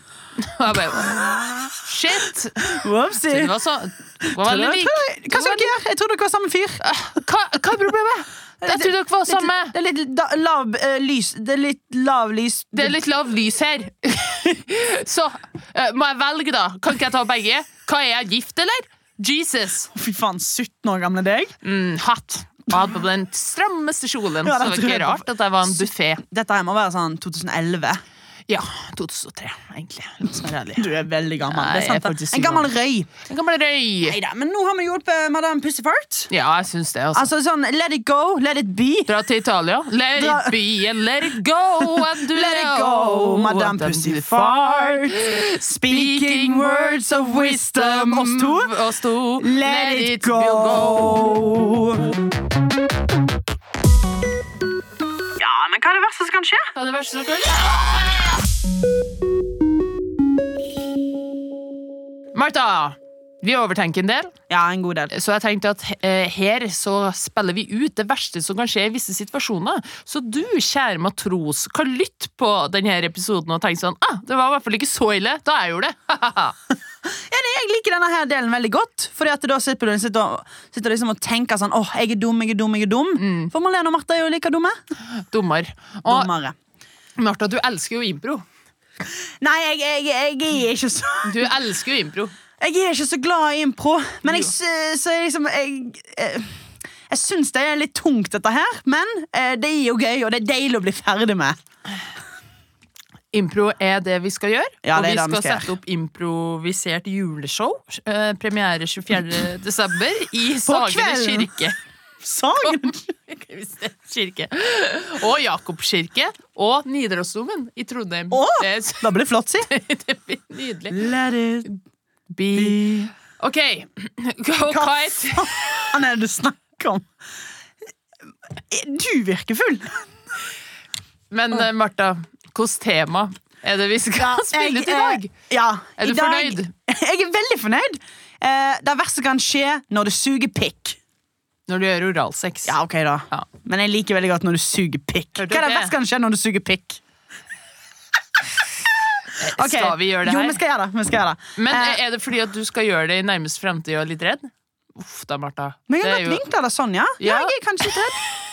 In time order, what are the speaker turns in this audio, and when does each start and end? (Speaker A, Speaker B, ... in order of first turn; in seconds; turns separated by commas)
Speaker A: 0.4-5.7, Speaker B: 2.7-3.5, Speaker B: 4.2-6.8, Speaker A: 6.8-9.8, Speaker B: 8.6-13.0, Speaker A: 12.7-19.9, Speaker B: 19.9-21.5, Speaker A: 21.6-26.2, Speaker B: 24.4-28.0, Speaker A: 28.5-30.9, Speaker B: 30.8-33.1, Speaker A: 31.5-32.7, Speaker A: 33.2-34.2, Speaker B: 34.0-36.3, Speaker A: 36.3-37.3, Speaker B: 37.1-39.1, Speaker A: 39.1-51.2, Speaker B: 40.2-40.6, Speaker B: 41.8-48.7, Speaker B: 49.4-52.1, Speaker B: 55.4-56.7, Speaker A: 56.8-58.3, Speaker A: 62.3-64.3, Speaker B: 64.5-65.1, Speaker A: 65.1-76.6, Speaker B: 77.0-84.8, Speaker A: 83.2-83.5, Speaker A: 85.2-86.3, Speaker B: 86.1-86.5, Speaker A: 87.2-88.4, Speaker B: 89.4-91.5, Speaker A: 91.2-92.3, Speaker B: 92.6-101.6, Speaker A: 103.3-111.8, Speaker B: 104.8-105.7, Speaker B: 110.7-111.5, Speaker B: 112.2-113.1, Speaker A: 112.6-121.0, Speaker B: 118.3-119.7, Speaker B: 120.9-121.7, Speaker A: 122.3-126.0, Speaker B: 122.5-123.1, Speaker B: 124.7-127.1, Speaker B: 128.7-130.1, Speaker A: 131.3-135.3, Speaker B: 134.2-141.0, Speaker A: 136.0-136.7, Speaker A: 141.7-142.8, Speaker B: 142.7-147.0, Speaker A: 145.4-145.9, Speaker A: 149.3-150.6, Speaker B: 149.5-152.0, Speaker A: 151.6-156.4, Speaker B: 155.9-158.2, Speaker A: 157.2-157.9